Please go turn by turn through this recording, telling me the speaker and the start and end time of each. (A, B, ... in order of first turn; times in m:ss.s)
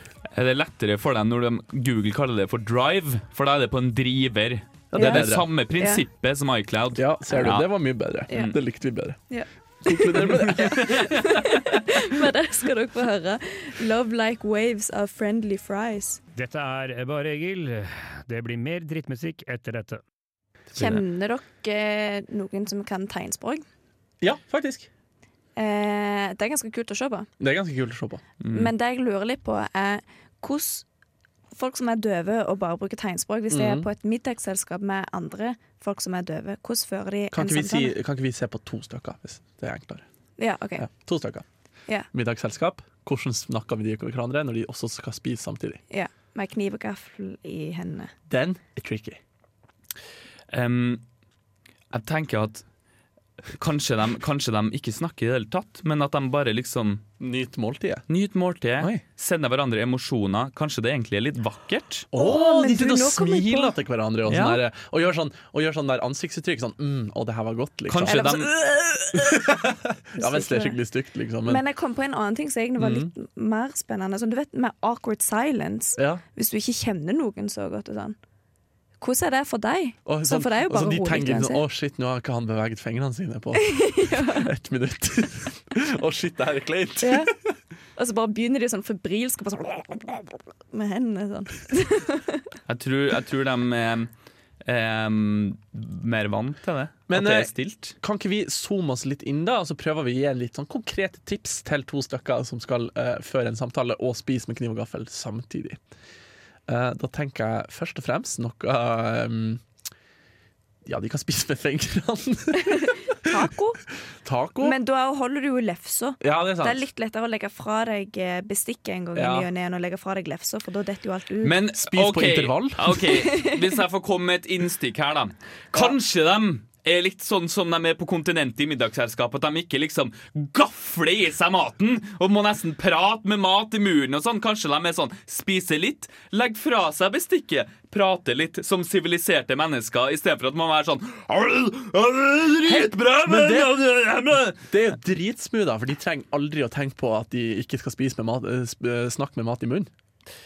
0:00.3-0:07.6 A
0:04.9-0:05.5 B
0:05.0-0:05.3 C
0:05.8-0:06.0 C
0:07.0-0:09.2 B
0:08.3-0:08.5 C
0:08.3-0:08.6 A
0:09.3-0:16.2 C
0:09.8-0:11.1 B
0:10.5-0:11.3 A
0:16.3-0:20.0 D
0:20.7-0:23.6 C
0:20.8-0:21.0 A
0:24.2-0:24.9 B
0:25.6-0:27.3 C
0:27.4-0:28.2 B
0:28.4-0:28.7 A
0:28.5-0:30.8 C
0:31.5-0:38.0 C
0:33.5-0:33.9 B
0:37.3-0:40.0 B
0:40.4-0:40.8 C
0:40.8-0:41.4 B
0:42.1-0:45.8 B
0:45.9-0:48.1 C
0:48.3-0:49.2 B
0:50.5-0:51.0 A
0:51.9-0:52.6 A
0:53.5-0:57.0 A
0:57.2-0:58.0 B
0:58.1-1:02.1 A
1:02.1-1:08.4 B
1:02.1-1:03.7 C
1:04.3-1:04.6 A
1:07.9-1:08.5 A
1:08.0-1:09.5 C
1:09.1-1:11.6 B
1:10.2-1:10.8 C
1:11.4-1:18.2 C
1:12.8-1:13.1 B
1:16.0-1:16.2 B
1:19.0-1:21.6 C
1:20.0-1:27.5 B
1:23.6-1:24.5 C
1:27.0-1:27.3 C
1:28.0-1:32.4 C
1:32.7-1:34.1 A
1:34.6-1:37.9 A
1:37.1-1:45.8 B
1:46.7-1:49.6 B
1:50.8-1:53.4 B
1:52.6-1:53.8 C
1:54.2-1:54.8 B
1:54.6-2:01.6 C
1:56.2-1:56.8 B
1:59.2-1:59.5 B
2:01.4-2:24.6 A
2:01.7-2:03.0 B
2:03.1-2:03.6 C
2:22.6-2:23.7 B
2:24.7-2:29.9 B